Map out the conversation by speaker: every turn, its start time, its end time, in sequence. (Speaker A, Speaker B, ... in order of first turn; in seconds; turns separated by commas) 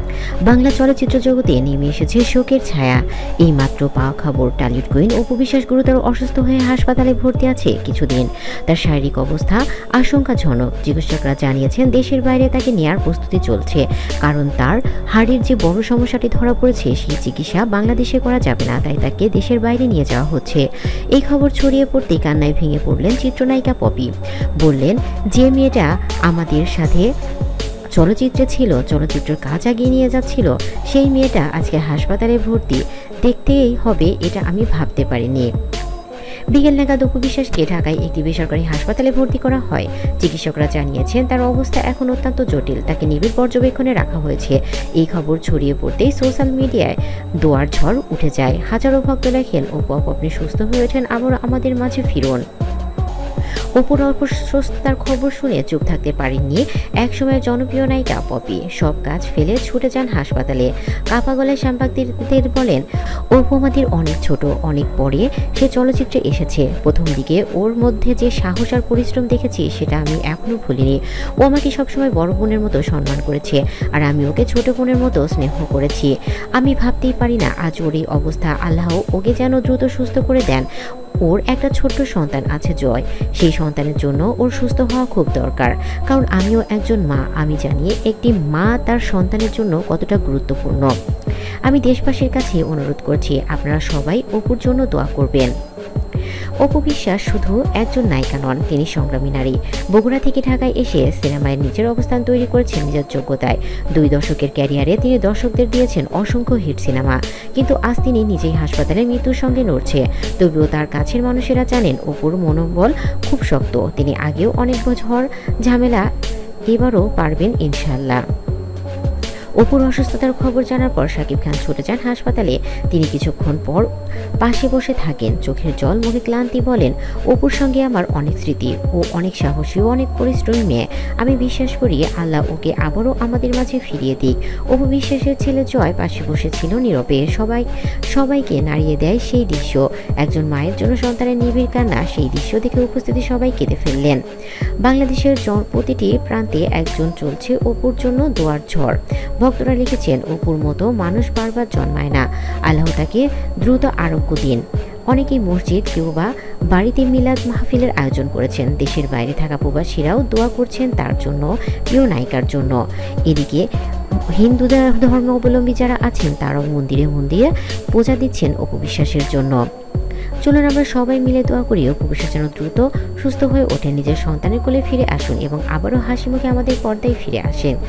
Speaker A: 0.5-20.6, Speaker A: 21.2-24.1, Speaker A: 24.6-27.1, Speaker A: 28.0-35.5, Speaker A: 36.5-52.4, Speaker A: 53.8-62.8, Speaker A: 63.3-80.7, Speaker A: 81.3-90.9, Speaker A: 91.7-95.5, Speaker A: 96.6-116.0, Speaker A: 116.7-118.2, Speaker A: 119.6-123.9, Speaker A: 124.4-144.2, Speaker A: 144.8-162.8, Speaker A: 163.3-163.6, Speaker A: 164.4-169.6, Speaker A: 170.4-177.8